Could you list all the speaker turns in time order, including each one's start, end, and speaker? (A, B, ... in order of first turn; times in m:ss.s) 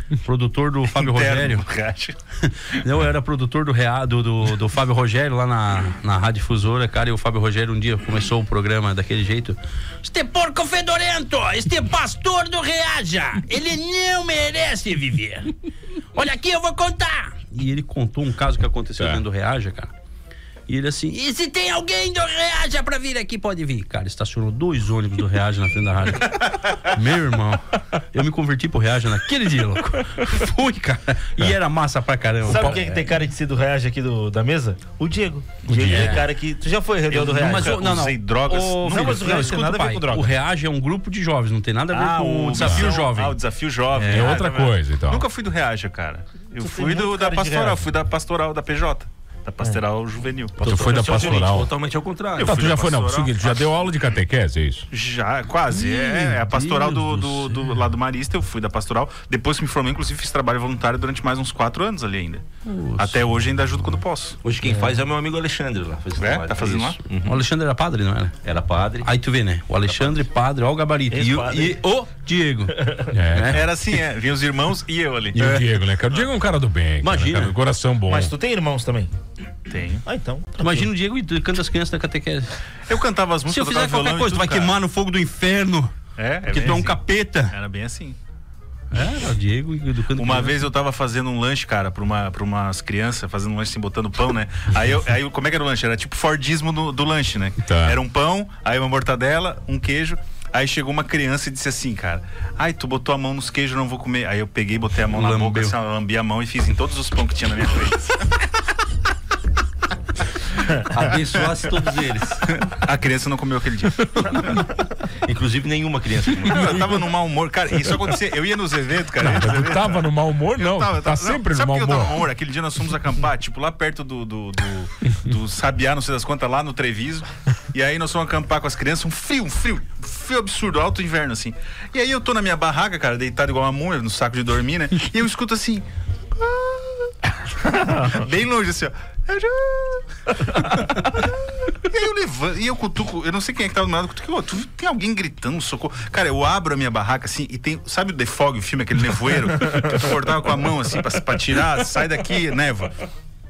0:00.2-0:01.7 A
0:00.9-0:02.2 B
0:02.5-0:15.5 A
0:16.1-0:19.9 A
0:19.0-0:19.2 C
0:20.7-0:33.0 A
0:32.5-0:33.2 D
0:32.5-0:37.5 E
0:34.6-0:36.3 D
0:35.7-0:36.2 C
0:35.8-0:36.2 A
0:37.1-0:37.8 D
0:37.1-0:43.4 A
0:37.4-0:39.6 B
0:38.9-0:40.3 D
0:39.1-0:40.3 E
0:41.9-0:51.5 B
0:42.6-0:42.9 C
0:44.0-0:44.4 D
0:44.0-0:45.2 C
0:46.6-0:47.7 E
0:46.9-0:47.8 D
0:50.6-0:52.6 D
0:50.6-0:51.7 C
0:52.3-0:53.8 B
0:52.4-0:54.8 C
0:54.9-1:02.4 B
0:55.7-0:57.6 A
1:02.6-1:03.2 A
1:03.0-1:04.4 B
1:04.4-1:07.4 D
1:06.2-1:07.0 B
1:07.2-1:08.4 A
1:08.4-1:09.0 D
1:09.0-1:13.6 A
1:11.1-1:11.8 D
1:13.1-1:13.6 C
1:13.5-1:15.6 B
1:15.4-1:15.6 A
1:15.4-1:18.3 C
1:17.0-1:17.5 A
1:18.1-1:19.1 E
1:19.7-1:20.0 B
1:20.1-1:20.6 E
1:20.6-1:22.5 A
1:22.9-1:24.8 B
1:23.5-1:25.9 A
1:26.2-1:28.2 B
1:26.5-1:27.5 A
1:28.9-1:30.6 A
1:30.1-1:48.4 B
1:37.6-1:38.0 C
1:45.1-1:45.7 A
1:50.9-1:52.4 D
1:51.3-1:51.6 B
1:52.4-1:54.6 B
1:55.1-1:56.9 D
1:56.4-2:32.9 B
1:59.2-2:02.2 C